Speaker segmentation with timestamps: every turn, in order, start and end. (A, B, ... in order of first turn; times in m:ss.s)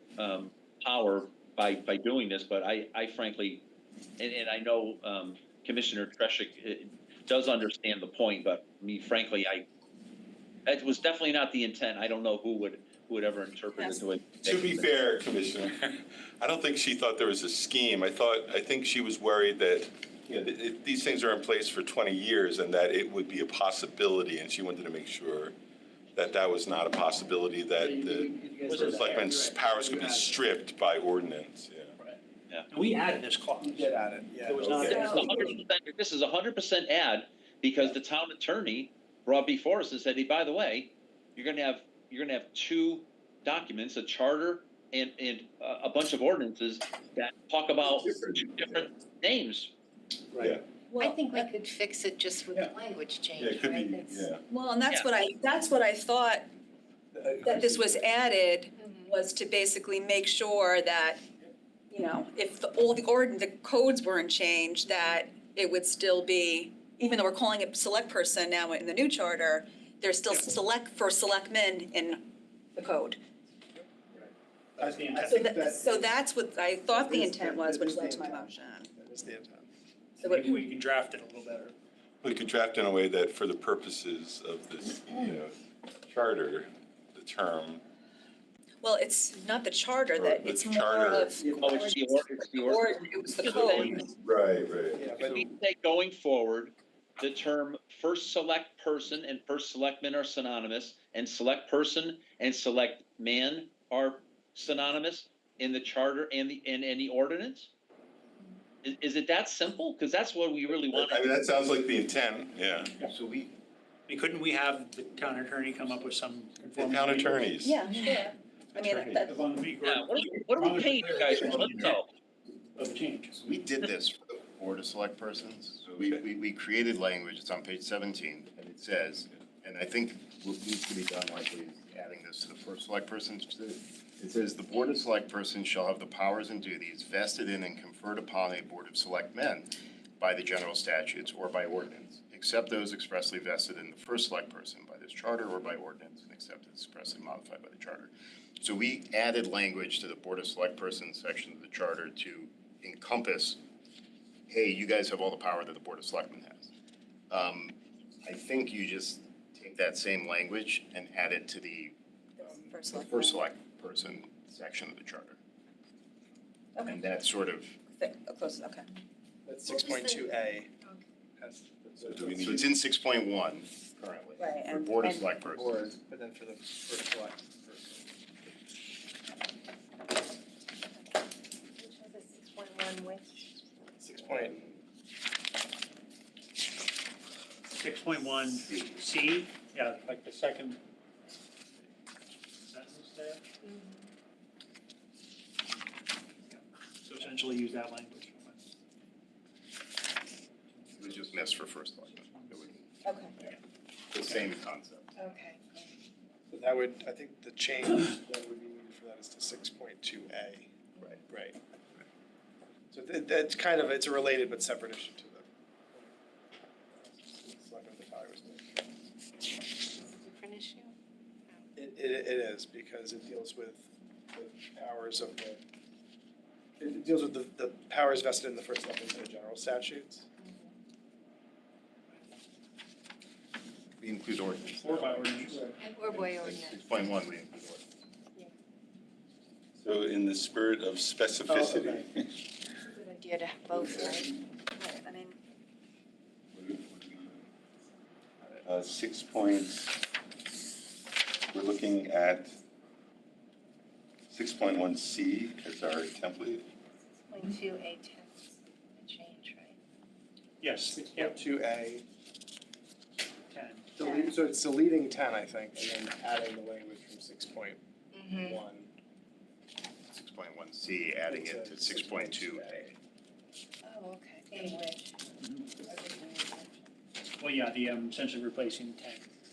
0:00.2-0:03.7 A
0:04.2-0:09.7 A
0:10.7-0:14.9 A
0:13.8-0:14.0 B
0:14.4-0:25.6 C
0:26.2-0:31.9 C
0:27.8-0:30.4 D
0:28.7-0:29.0 A
0:28.9-0:29.3 E
0:32.7-0:33.9 E
0:33.6-0:35.5 D
0:34.4-0:35.6 E
0:34.8-0:49.7 A
0:34.8-0:35.3 B
0:47.8-0:48.5 C
0:50.3-0:50.6 D
0:50.9-0:54.3 F
0:51.0-0:51.5 B
0:53.4-0:54.4 C
0:54.5-0:56.5 B
0:57.1-0:58.1 D
0:57.4-1:01.2 B
0:58.8-0:59.1 F
1:01.9-1:13.2 B
1:13.8-1:16.2 D
1:14.8-1:15.5 E
1:15.3-1:18.9 B
1:16.9-1:19.7 D
1:20.2-1:20.7 B
1:20.2-1:21.8 E
1:22.2-1:25.6 C
1:26.1-1:27.8 C
1:28.8-1:34.1 B
1:30.2-1:31.6 C
1:31.4-1:31.9 D
1:31.6-1:34.0 A
1:33.4-1:35.1 C
1:34.9-1:35.4 D
1:35.2-1:47.7 A
1:48.8-1:51.4 A
1:50.9-1:53.0 C
1:53.0-1:53.5 G
1:54.1-1:57.5 E
1:56.7-1:57.8 C
1:57.6-1:59.4 B
1:58.8-2:02.0 E
1:59.8-2:02.1 A
2:02.8-2:03.6 E
2:03.4-2:33.6 G
2:34.5-2:36.7 G
2:37.3-2:45.4 G
2:42.4-2:43.4 B
2:46.8-2:47.0 B
2:46.9-2:47.8 G
2:48.0-2:48.9 B
2:49.4-2:50.7 D
2:51.4-2:52.6 D
2:52.0-2:52.7 C
2:52.4-2:55.8 G
2:54.4-2:55.3 B
2:55.5-2:58.1 D
3:01.8-3:03.3 F
3:04.0-3:04.6 D
3:07.7-3:10.8 E
3:12.6-3:13.4 E
3:16.5-3:18.6 E
3:20.8-3:21.6 E
3:21.0-3:23.6 G
3:22.2-3:22.6 E
3:23.0-3:23.4 B
3:24.1-3:25.1 G
3:25.2-3:25.9 F
3:26.5-3:30.7 D
3:31.0-3:31.3 G
3:31.3-3:31.6 D
3:32.9-3:36.2 D
3:36.9-3:39.1 D
3:40.0-3:41.0 F
3:41.8-3:45.6 D
3:46.8-3:50.3 D
3:50.4-3:50.7 F
3:54.0-3:57.8 G
3:54.8-3:55.8 E
3:55.8-3:56.9 F
3:59.8-4:02.5 C
4:01.5-4:02.0 E
4:02.9-4:04.3 F
4:03.8-4:04.2 C
4:04.7-4:05.4 B
4:06.5-4:07.4 C
4:08.6-4:10.0 C
4:11.5-4:12.6 C
4:14.3-4:16.7 C
4:17.3-4:19.8 F
4:20.6-4:21.4 E
4:20.9-4:22.0 D
4:23.5-4:23.9 E
4:24.0-4:28.9 D
4:28.2-4:28.6 F
4:30.1-4:32.8 G
4:31.3-4:33.0 D
4:33.8-4:35.1 F
4:35.4-4:35.7 E
4:35.8-4:36.7 F
4:37.4-4:39.3 E